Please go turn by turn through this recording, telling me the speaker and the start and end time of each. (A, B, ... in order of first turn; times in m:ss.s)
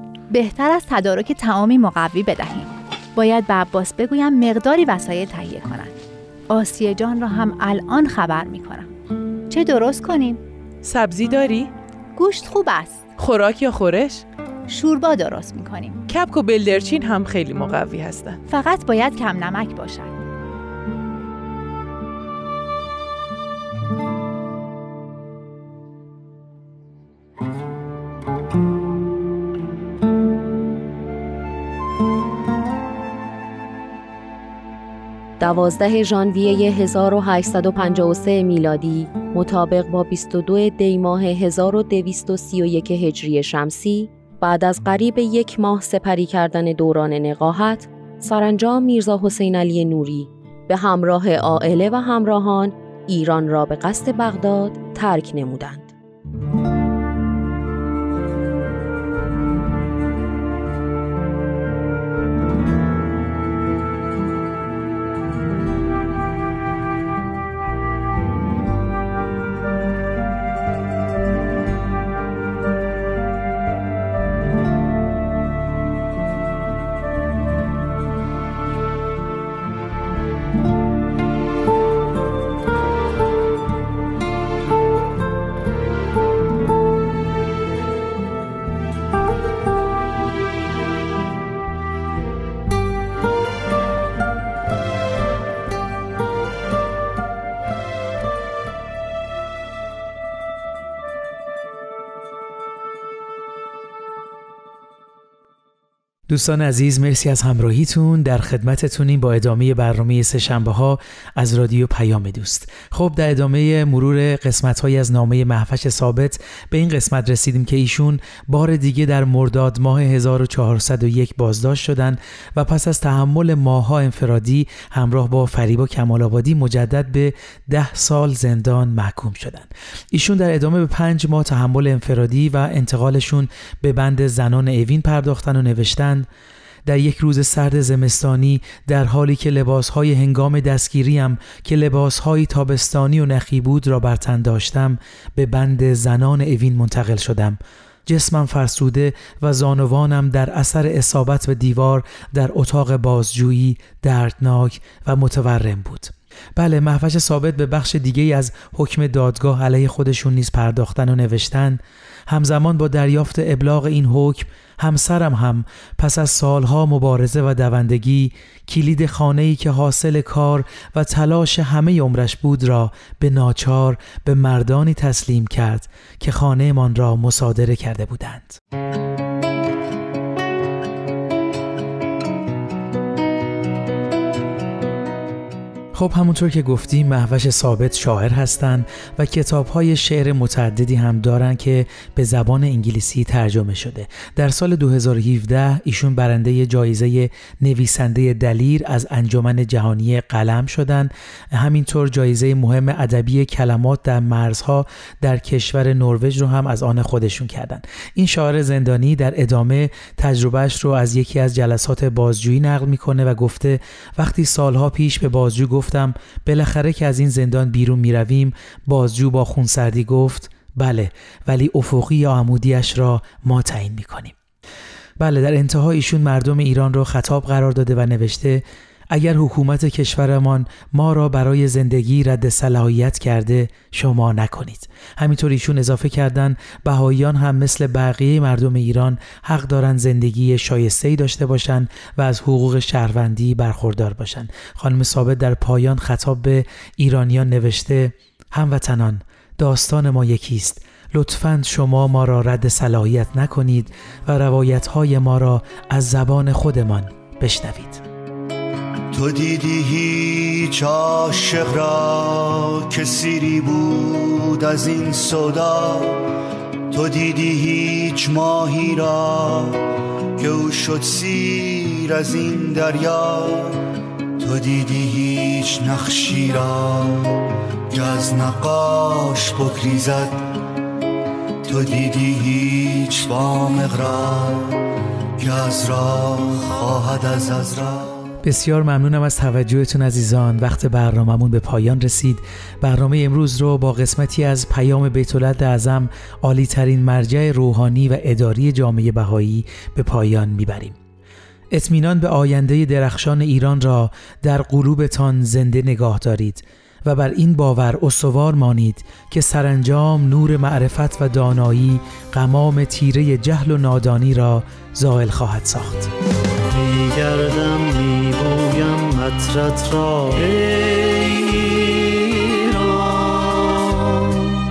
0:00.3-0:06.0 A
0:06.5-0:08.9 A
0:09.5-0:10.4 A
0:10.8-0:11.7 B
0:12.1-0:13.1 A
0:13.2-0:14.2 B
0:14.7-0:16.0 A
0:16.1-0:18.4 B
0:18.5-0:20.3 A
0:35.4-0:55.9 C
1:46.3-2:16.3 D
2:16.9-2:58.6 D
3:06.0-3:44.3 D
3:45.2-4:18.0 D
4:19.1-4:26.2 E
4:26.9-4:29.8 E
4:30.4-4:33.8 E
4:34.4-4:37.3 E
4:37.9-4:40.4 E
4:41.6-4:44.8 E
4:45.4-4:48.2 E
4:48.4-5:01.0 D
5:01.7-5:16.1 D
5:16.7-5:24.5 E